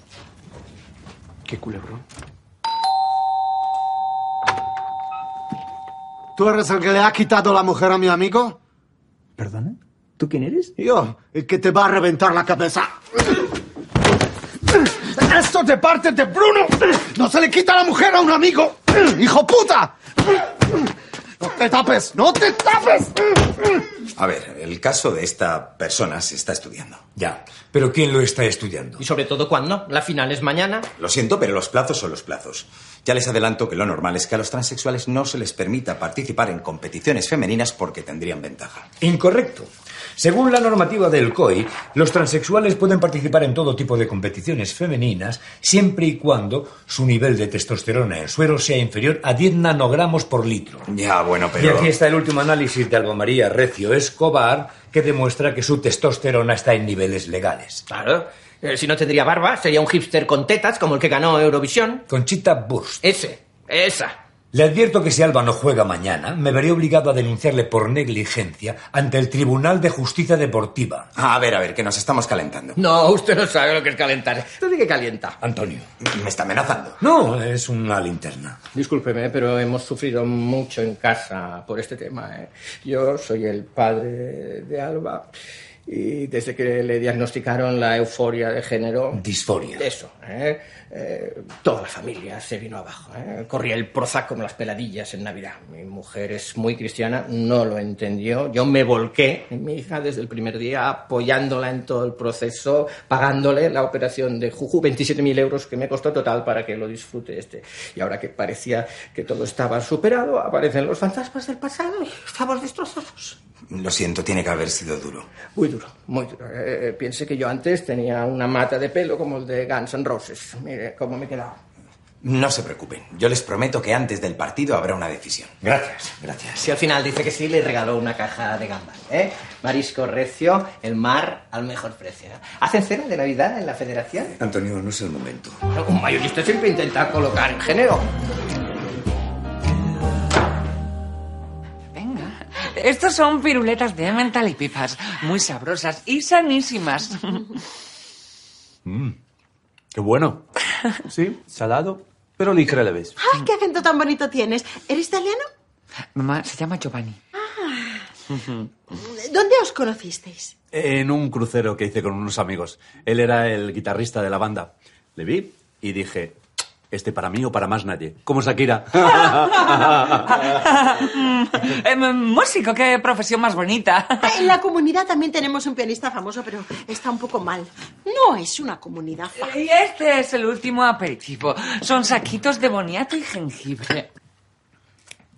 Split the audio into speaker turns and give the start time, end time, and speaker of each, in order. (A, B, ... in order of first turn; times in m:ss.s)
0:06.4-0:08.5 A
0:10.2-0:10.7 B
0:10.8-0:12.9 A
0:15.0-0:19.9 A
0:21.4-0:23.1 A
0:24.2-0:27.0 C
0:27.2-0:29.0 D
0:29.0-0:30.9 B
0:31.0-0:38.7 C
0:39.0-0:50.9 D
0:51.5-0:57.8 D
0:57.9-1:02.0 B
1:02.1-1:03.0 D
1:03.0-1:04.2 B
1:04.5-1:11.1 D
1:11.2-1:12.6 C
1:12.7-1:15.4 B
1:15.4-1:15.9 D
1:16.1-1:16.9 C
1:17.0-1:18.6 D
1:18.7-1:25.3 B
1:25.9-1:52.4 B
1:29.1-1:29.8 D
1:52.5-1:53.3 E
1:53.8-1:55.1 C
1:55.5-2:01.6 B
2:02.2-2:06.5 C
2:06.5-2:14.4 B
2:14.4-2:15.6 D
2:15.7-2:18.1 B
2:21.9-2:27.5 F
2:28.8-2:29.1 G
2:29.9-2:30.4 G
2:31.1-2:33.1 G
2:33.2-2:35.4 E
2:36.1-2:37.2 F
2:37.4-2:37.9 E
2:38.9-2:40.5 E
2:40.7-2:46.4 G
2:46.9-2:50.1 G
2:49.3-2:54.3 F
2:54.2-2:59.5 E
2:59.4-3:04.1 F